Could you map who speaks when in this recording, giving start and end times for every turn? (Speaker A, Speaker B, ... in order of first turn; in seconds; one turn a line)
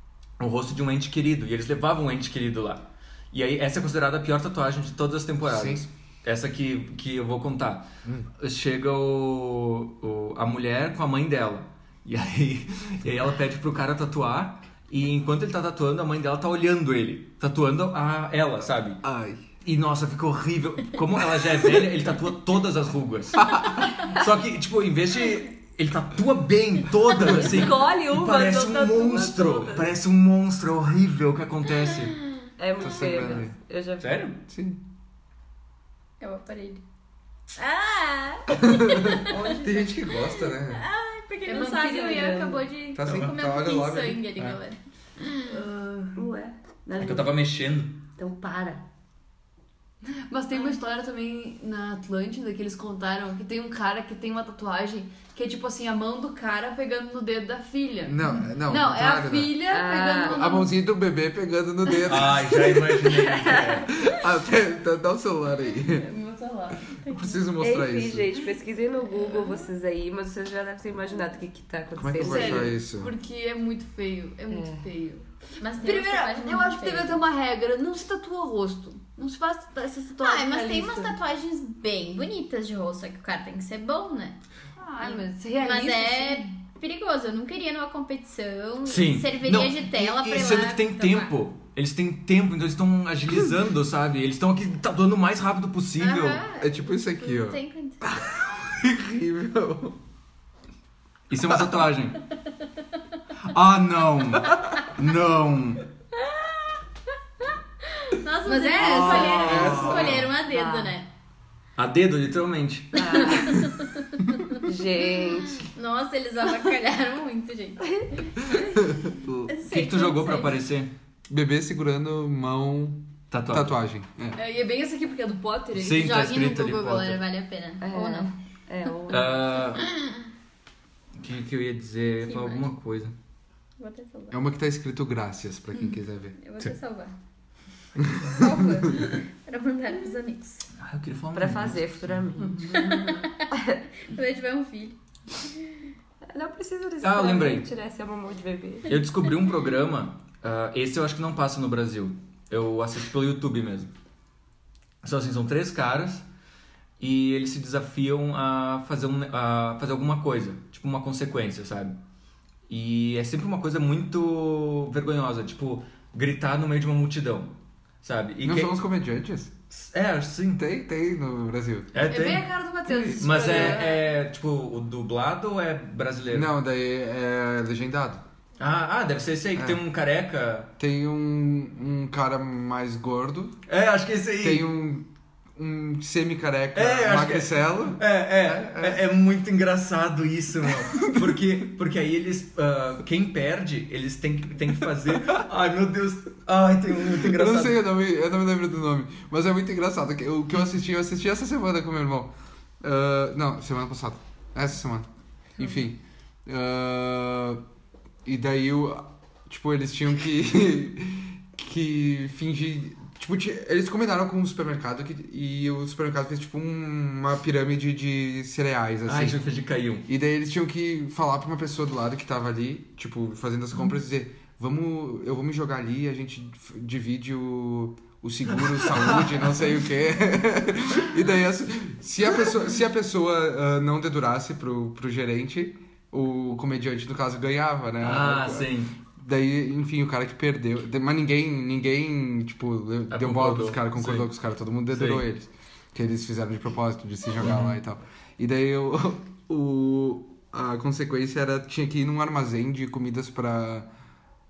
Speaker A: 0.4-19.0
Speaker B: 5.4-5.8
Speaker B: 19.0-19.4
Speaker A: 19.6-32.2
Speaker B: 23.4-23.8
Speaker C: 27.2-29.9
Speaker C: 32.6-34.1
Speaker B: 32.8-33.5
Speaker A: 34.0-34.4
Speaker B: 34.5-34.8
Speaker D: 36.2-36.8
Speaker D: 37.5-39.6
Speaker B: 38.7-40.8
Speaker E: 39.3-39.9
Speaker D: 40.2-45.5
Speaker E: 41.5-42.7
Speaker B: 42.9-44.3
Speaker A: 43.0-43.3
Speaker E: 45.4-46.2
Speaker C: 46.1-47.3
Speaker A: 47.0-48.0
Speaker C: 48.2-48.8
Speaker E: 50.0-60.7
Speaker B: 58.0-59.6
Speaker C: 59.7-60.5
Speaker B: 60.2-62.8
Speaker A: 62.0-64.0
Speaker C: 62.7-63.9
Speaker B: 64.0-66.0
Speaker E: 65.9-67.1
Speaker B: 67.0-68.3
Speaker C: 67.6-72.7
Speaker B: 72.0-73.1
Speaker E: 72.2-81.2
Speaker C: 74.5-74.8
Speaker D: 75.6-77.2
Speaker D: 80.2-84.4
Speaker E: 84.8-86.5
Speaker D: 85.0-91.3
Speaker A: 88.8-96.4
Speaker D: 96.0-98.0
Speaker B: 96.6-100.0
Speaker A: 101.3-102.2
Speaker A: 103.4-105.8
Speaker D: 106.2-106.7
Speaker D: 107.9-111.1
Speaker E: 108.4-109.5
Speaker A: 108.8-110.3
Speaker B: 109.2-110.3
Speaker C: 110.3-110.9
Speaker A: 111.8-113.4
Speaker C: 112.9-113.7
Speaker D: 113.2-114.7
Speaker C: 114.6-115.6
Speaker D: 115.5-118.8
Speaker B: 118.8-119.5
Speaker D: 119.5-120.6
Speaker A: 119.7-120.9
Speaker B: 121.3-124.4
Speaker A: 123.3-123.8
Speaker E: 124.3-126.2
Speaker A: 125.7-127.2
Speaker D: 125.8-128.3
Speaker C: 127.8-129.6
Speaker A: 129.1-129.8
Speaker A: 131.2-133.1
Speaker D: 132.2-132.7
Speaker D: 133.8-134.4
Speaker B: 134.3-136.3
Speaker D: 135.9-137.1
Speaker B: 138.0-138.9
Speaker D: 138.3-140.7
Speaker A: 140.8-142.4
Speaker C: 141.3-143.1
Speaker E: 142.5-143.2
Speaker D: 142.8-143.5
Speaker D: 144.0-144.9
Speaker C: 146.3-149.0
Speaker A: 147.0-147.7
Speaker A: 148.9-153.9
Speaker A: 155.0-156.2
Speaker A: 157.0-161.9
Speaker A: 162.7-167.5
Speaker A: 168.0-168.8
Speaker B: 168.4-169.5
Speaker A: 169.7-170.7
Speaker B: 170.6-172.0
Speaker A: 171.9-172.5
Speaker E: 172.1-174.0
Speaker B: 172.8-173.8
Speaker A: 173.2-176.5
Speaker B: 176.3-178.2
Speaker A: 178.6-180.7
Speaker B: 180.8-183.6
Speaker A: 183.7-184.7
Speaker B: 184.4-189.0
Speaker A: 186.7-197.8
Speaker B: 190.8-191.4
Speaker B: 197.1-207.6
Speaker B: 208.2-219.4
Speaker A: 219.1-220.1
Speaker B: 220.0-253.9
Speaker A: 228.7-229.5
Speaker A: 238.0-238.9
Speaker A: 243.1-244.3
Speaker A: 244.9-245.2
Speaker A: 247.4-247.7